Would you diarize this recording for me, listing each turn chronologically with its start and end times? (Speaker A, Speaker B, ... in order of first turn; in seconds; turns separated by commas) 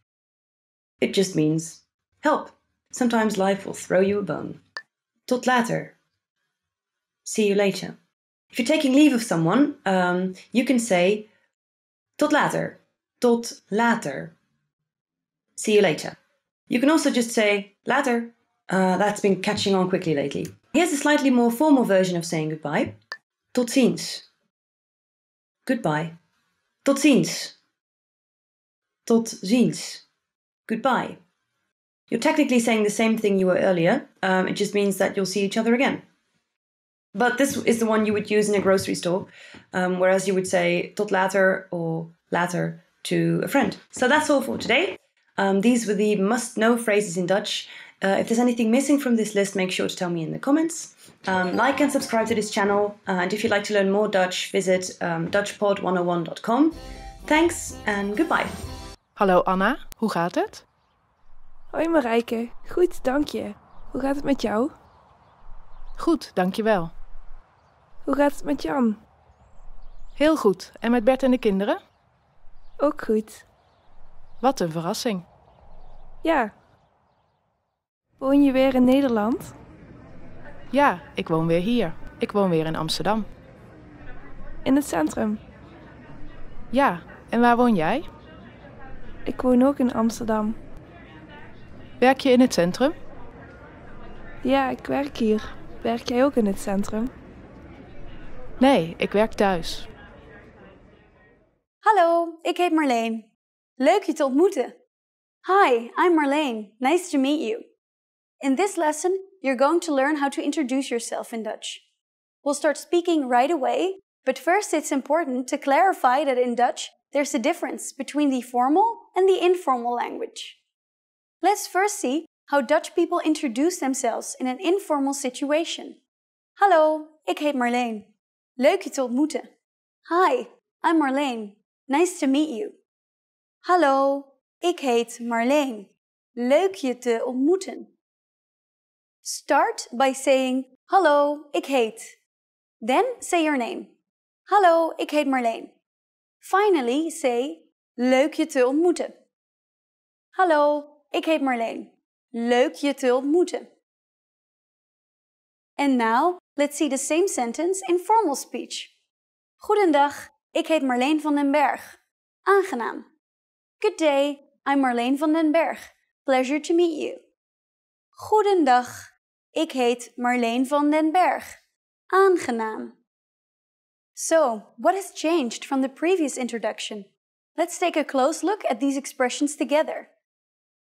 Speaker A: 1.0-4.6, Speaker A: 5.3-5.9, Speaker A: 7.2-8.0, Speaker A: 8.5-11.3, Speaker A: 12.2-14.3, Speaker A: 15.6-16.2, Speaker A: 16.7-23.0, Speaker A: 23.5-24.3, Speaker A: 25.6-26.1, Speaker A: 26.8-27.6, Speaker A: 29.1-30.0, Speaker A: 30.7-31.2, Speaker A: 32.1-36.0, Speaker A: 37.1-58.6, Speaker B: 59.1-60.6, Speaker C: 61.7-64.7, Speaker B: 66.0-66.9, Speaker C: 68.0-69.0, Speaker B: 70.2-71.8, Speaker C: 72.8-73.4, Speaker B: 74.4-75.2, Speaker C: 76.2-76.5, Speaker C: 78.2-79.5, Speaker B: 80.7-83.3, Speaker C: 84.6-85.4, Speaker B: 86.7-88.1, Speaker C: 89.2-90.6, Speaker B: 92.0-92.9, Speaker C: 94.4-97.1, Speaker B: 98.6-99.9, Speaker D: 101.8-103.3, Speaker D: 103.8-104.8, Speaker D: 105.4-107.7, Speaker D: 108.4-111.8, Speaker D: 112.4-120.5, Speaker D: 121.4-126.0, Speaker D: 126.6-128.1, Speaker D: 128.6-129.5, Speaker D: 130.1-132.8, Speaker D: 133.6-137.9, Speaker D: 139.2-142.1, Speaker D: 142.8-143.9, Speaker D: 144.5-145.7, Speaker D: 146.4-149.1, Speaker D: 150.3-153.7, Speaker D: 155.8-158.9, Speaker D: 159.6-163.1, Speaker D: 163.8-167.2, Speaker D: 168.2-171.6, Speaker D: 172.1-172.9, Speaker D: 174.2-180.1